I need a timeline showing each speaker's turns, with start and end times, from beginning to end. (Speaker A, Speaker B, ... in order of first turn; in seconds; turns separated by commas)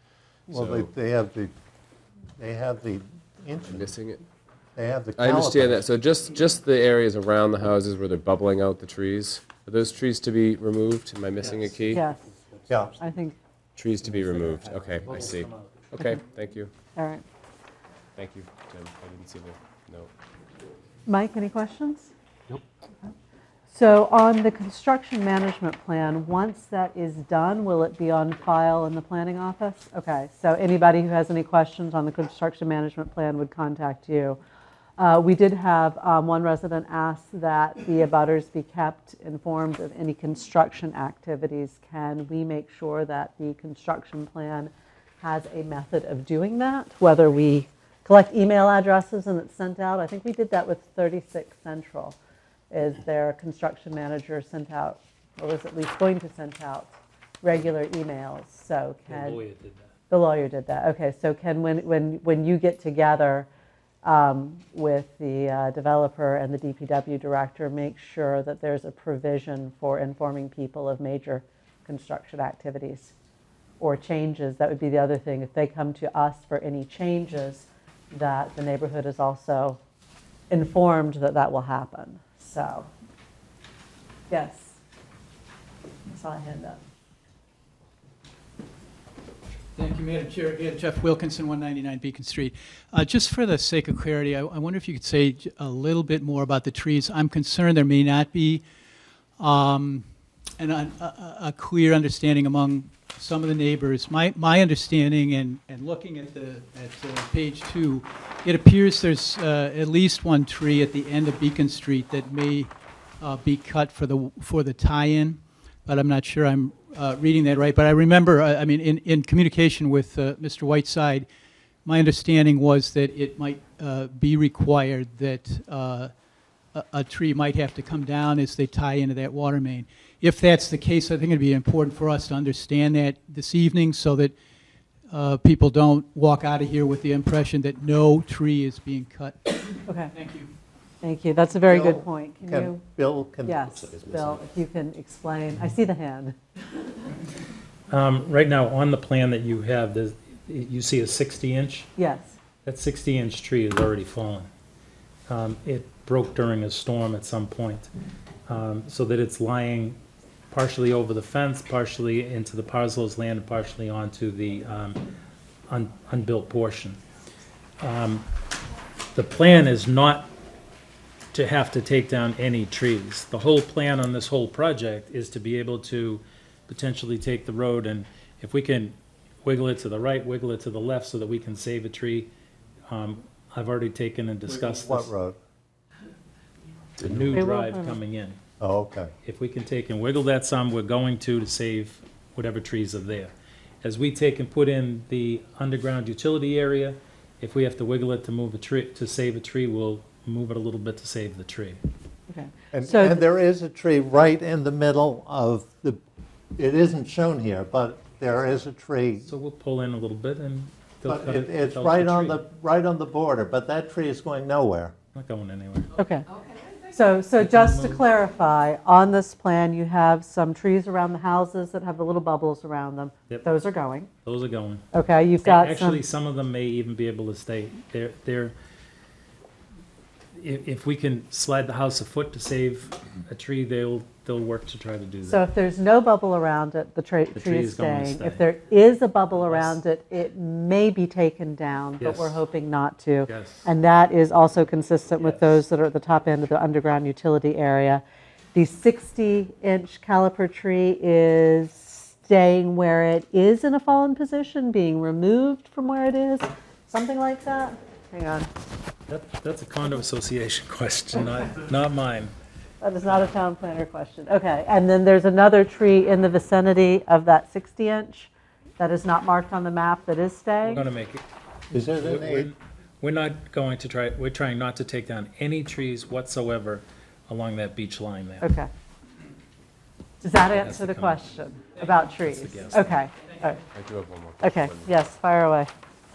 Speaker A: 0.5-0.9, Speaker B: 0.5-1.5, Speaker B: 2.4-3.9, Speaker A: 3.6-4.2, Speaker B: 4.8-5.8, Speaker A: 5.2-12.0, Speaker C: 11.4-12.9, Speaker D: 11.9-12.2, Speaker B: 12.7-12.9, Speaker D: 13.0-13.3, Speaker A: 13.8-16.7, Speaker C: 14.0-15.8, Speaker D: 16.9-17.2, Speaker A: 18.1-20.1, Speaker D: 21.1-22.1, Speaker D: 23.7-34.4, Speaker D: 35.0-52.2, Speaker D: 52.7-59.4, Speaker C: 59.1-59.9, Speaker D: 60.1-63.5, Speaker D: 64.0-73.1, Speaker D: 73.8-79.8, Speaker D: 80.5-82.9, Speaker D: 84.3-84.8, Speaker D: 86.1-86.8, Speaker E: 89.7-98.6, Speaker E: 99.4-100.0, Speaker E: 100.6-121.3, Speaker E: 121.8-126.1, Speaker E: 126.7-134.3, Speaker E: 135.1-140.5, Speaker D: 139.8-140.1, Speaker D: 141.0-142.8, Speaker B: 141.7-144.0, Speaker D: 143.4-146.3, Speaker C: 147.9-151.9, Speaker D: 152.0-152.4, Speaker C: 152.6-154.5, Speaker C: 155.3-157.9, Speaker C: 158.5-160.0, Speaker C: 160.5-165.0, Speaker C: 165.7-167.0, Speaker C: 167.8-168.2, Speaker C: 169.1-170.3, Speaker C: 171.3-182.3, Speaker C: 182.9-185.1, Speaker B: 184.5-185.4, Speaker C: 187.0-188.4, Speaker D: 187.3-188.0, Speaker B: 188.6-189.1, Speaker C: 189.2-201.8, Speaker D: 202.3-203.2, Speaker B: 202.7-206.0, Speaker B: 206.6-209.3, Speaker C: 209.3-212.4, Speaker B: 211.1-214.9, Speaker C: 215.1-215.9, Speaker D: 216.0-216.3, Speaker D: 216.8-224.1, Speaker C: 217.4-218.0, Speaker C: 224.2-224.8, Speaker D: 224.9-226.0, Speaker C: 225.4-228.5, Speaker C: 230.3-235.4, Speaker D: 235.2-248.0, Speaker C: 237.3-238.4, Speaker C: 242.0-242.4, Speaker C: 243.3-243.7, Speaker D: 248.5-258.5, Speaker C: 259.1-262.3, Speaker D: 262.8-270.8, Speaker C: 270.6-271.2, Speaker B: 271.7-272.5, Speaker C: 271.9-278.5, Speaker D: 278.4-278.7, Speaker D: 280.2-283.6, Speaker C: 280.5-281.2, Speaker C: 281.8-282.9, Speaker A: 283.7-284.9, Speaker D: 284.4-285.7